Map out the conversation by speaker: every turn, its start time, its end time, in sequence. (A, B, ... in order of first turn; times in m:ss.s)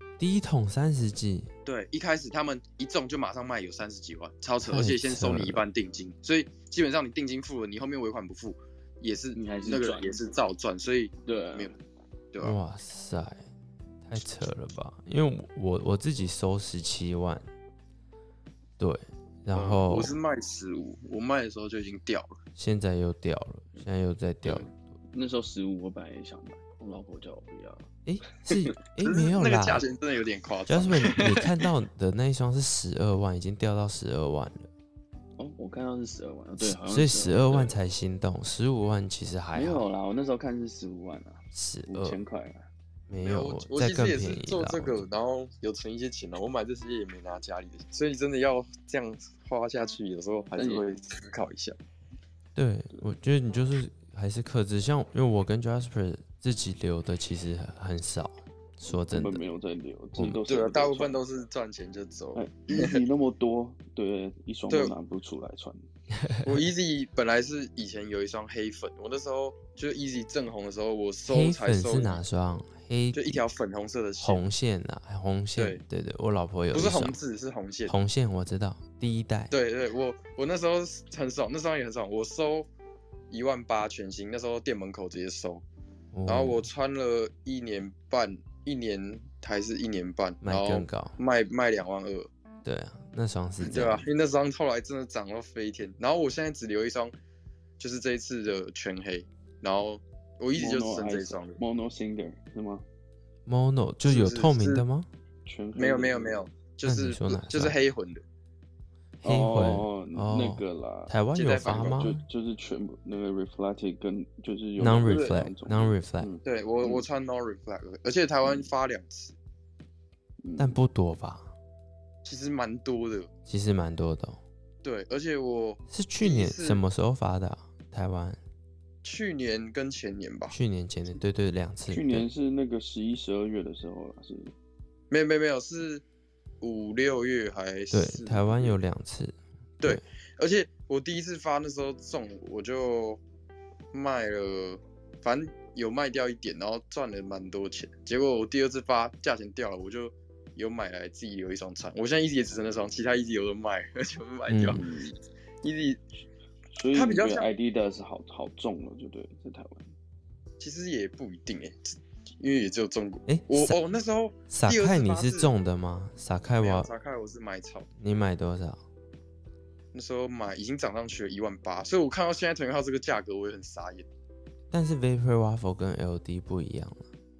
0:00.2-0:01.5 A
0:01.6-0:11.8 B
0:04.6-0:05.6 A
0:09.3-0:10.3 C
0:11.2-0:11.8 C
0:12.3-0:12.6 B
0:12.4-0:13.5 A
0:14.0-0:17.5 A
0:18.8-0:20.2 A
0:19.5-0:22.4 B
0:22.6-0:24.8 A
0:24.4-0:27.9 C
0:28.0-0:29.9 A
0:29.0-0:31.7 B
0:30.7-0:34.7 A
0:35.4-0:37.8 C
0:36.6-0:39.8 A
0:39.6-0:42.7 C
0:41.5-0:42.2 A
0:43.1-0:45.0 A
0:43.2-0:51.8 B
0:50.6-0:51.0 C
0:52.6-0:59.4 A
0:58.9-1:01.2 C
1:00.5-1:03.0 B
1:02.4-1:05.9 C
1:04.7-1:05.0 B
1:06.2-1:06.5 A
1:06.4-1:12.2 B
1:11.3-1:13.4 A
1:13.1-1:14.4 B
1:14.2-1:17.2 A
1:15.6-1:15.8 B
1:16.7-1:18.0 B
1:17.9-1:19.5 A
1:19.5-1:22.7 B
1:23.3-1:25.6 B
1:26.1-1:26.7 A
1:26.3-1:32.3 B
1:30.4-1:31.2 A
1:32.6-1:34.1 A
1:33.6-1:37.1 B
1:37.8-1:41.6 B
1:40.6-1:42.8 C
1:43.5-1:45.1 A
1:44.0-1:44.8 B
1:45.4-1:46.5 C
1:45.8-1:48.2 B
1:46.8-1:47.8 A
1:49.2-1:52.2 A
1:49.2-1:51.2 C
1:51.4-1:52.1 B
1:52.0-1:57.0 C
1:54.8-1:56.3 A
1:55.0-1:55.4 B
1:56.4-1:59.4 B
1:58.4-1:58.7 C
2:00.4-2:00.8 C
2:00.6-2:01.5 A
2:02.2-2:03.3 B
2:03.5-2:04.4 A
2:04.8-2:06.8 B
2:05.9-2:08.4 A
2:09.0-2:10.6 B
2:10.5-2:12.3 A
2:11.9-2:14.5 C
2:15.1-2:16.0 B
2:16.6-2:18.8 B
2:17.9-2:20.0 A
2:19.8-2:23.2 B
2:23.9-2:34.9 B
2:34.5-2:34.8 A
2:34.7-2:35.2 C
2:35.6-2:36.0 B
2:36.7-2:39.9 C
2:36.9-2:37.5 B
2:40.6-2:45.5 B
2:43.3-2:43.8 A
2:44.5-2:46.9 A
2:46.6-2:47.9 B
2:48.0-2:48.8 A
2:49.9-2:54.1 B
2:54.7-2:57.1 A